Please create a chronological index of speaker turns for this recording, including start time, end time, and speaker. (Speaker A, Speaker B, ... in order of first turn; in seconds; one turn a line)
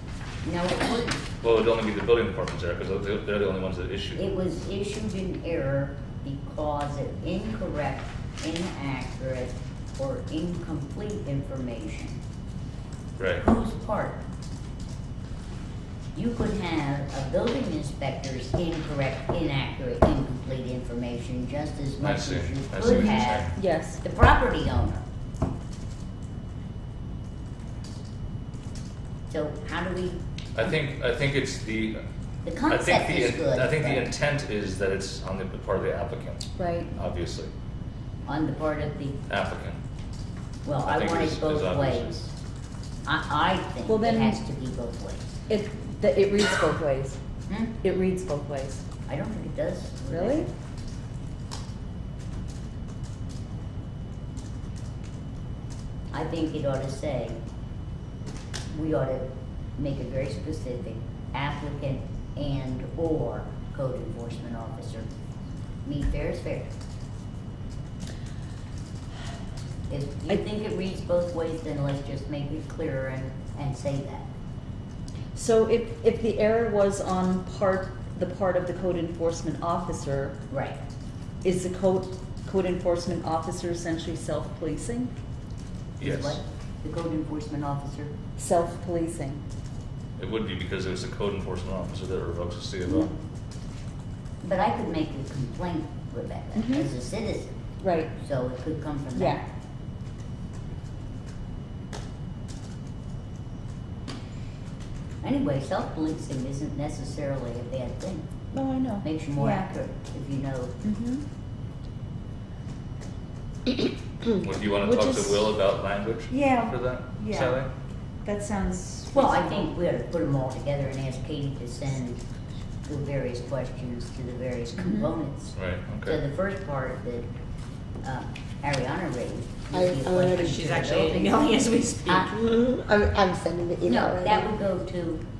Speaker A: 0.4-1.2
Speaker B: 1.4-4.2
Speaker A: 4.2-12.2
Speaker B: 13.2-13.4
Speaker A: 13.4-14.2
Speaker A: 16.1-25.0
Speaker B: 22.0-23.5
Speaker C: 22.9-24.0
Speaker A: 29.3-30.2
Speaker B: 30.6-32.0
Speaker A: 32.4-34.1
Speaker B: 32.7-37.5
Speaker C: 36.6-36.9
Speaker A: 38.2-39.2
Speaker B: 39.3-39.8
Speaker A: 40.6-42.3
Speaker B: 40.8-42.2
Speaker A: 43.0-45.3
Speaker C: 43.9-44.4
Speaker C: 45.5-47.2
Speaker A: 47.5-47.7
Speaker C: 47.8-48.8
Speaker A: 49.1-50.5
Speaker C: 50.1-50.5
Speaker A: 56.1-57.4
Speaker A: 58.7-65.1
Speaker A: 65.8-66.7
Speaker A: 69.9-74.3
Speaker C: 75.3-80.4
Speaker A: 80.5-80.8
Speaker C: 81.4-85.1
Speaker B: 86.0-86.4
Speaker A: 86.0-88.1
Speaker C: 88.4-89.4
Speaker B: 90.2-93.1
Speaker A: 92.8-93.1
Speaker A: 94.4-97.5
Speaker C: 96.5-96.9
Speaker C: 97.8-98.1
Speaker A: 98.2-99.4
Speaker C: 99.1-99.4
Speaker A: 105.2-108.2
Speaker C: 108.5-109.7
Speaker A: 109.0-110.7
Speaker C: 110.8-111.2
Speaker B: 114.4-117.7
Speaker C: 114.7-115.5
Speaker C: 116.3-117.6
Speaker C: 118.2-119.7
Speaker A: 119.1-122.2
Speaker A: 122.8-127.3
Speaker C: 124.8-125.1
Speaker B: 125.5-126.2
Speaker A: 128.0-131.6
Speaker D: 129.7-130.6
Speaker E: 130.3-132.3
Speaker D: 132.1-134.5
Speaker A: 133.8-135.2